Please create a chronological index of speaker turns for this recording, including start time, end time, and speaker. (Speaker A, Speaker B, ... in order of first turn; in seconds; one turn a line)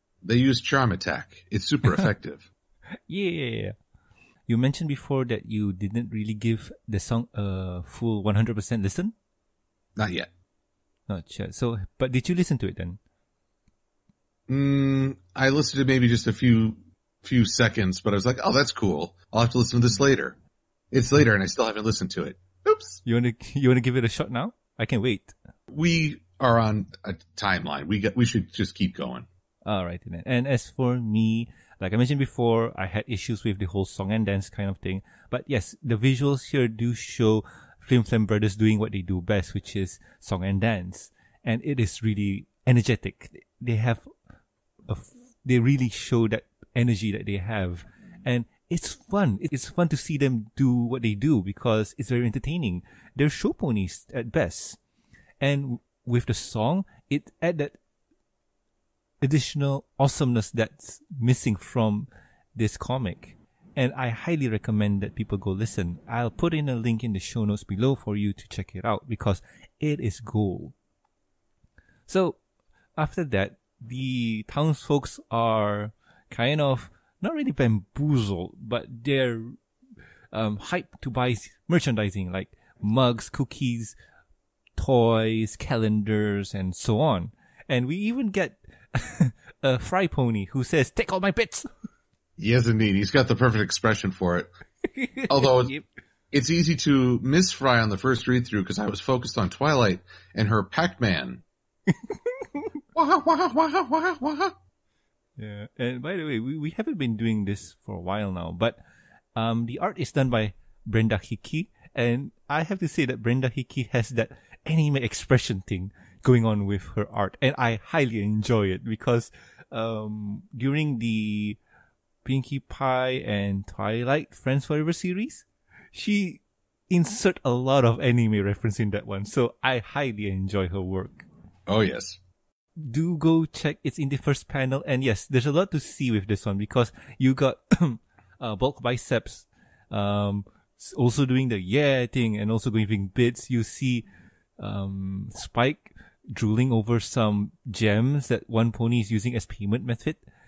Speaker A: 0.2-2.5
Speaker B: 3.1-3.7
Speaker B: 4.5-9.1
Speaker A: 10.0-10.3
Speaker B: 11.1-13.0
Speaker A: 14.5-20.4
Speaker A: 20.9-23.0
Speaker B: 23.1-25.3
Speaker A: 25.7-29.3
Speaker B: 29.6-44.1
Speaker B: 44.9-54.8
Speaker B: 55.4-57.8
Speaker B: 59.2-70.8
Speaker B: 72.1-72.4
Speaker B: 73.0-79.6
Speaker B: 80.3-84.0
Speaker B: 84.8-91.7
Speaker A: 92.4-94.5
Speaker B: 95.0-95.8
Speaker A: 95.3-95.7
Speaker A: 96.3-101.4
Speaker B: 101.9-102.7
Speaker A: 103.0-104.6
Speaker B: 105.4-108.8
Speaker B: 109.4-121.6
Speaker B: 122.2-131.3
Speaker A: 131.7-132.2
Speaker B: 132.8-144.1
Speaker B: 144.6-150.2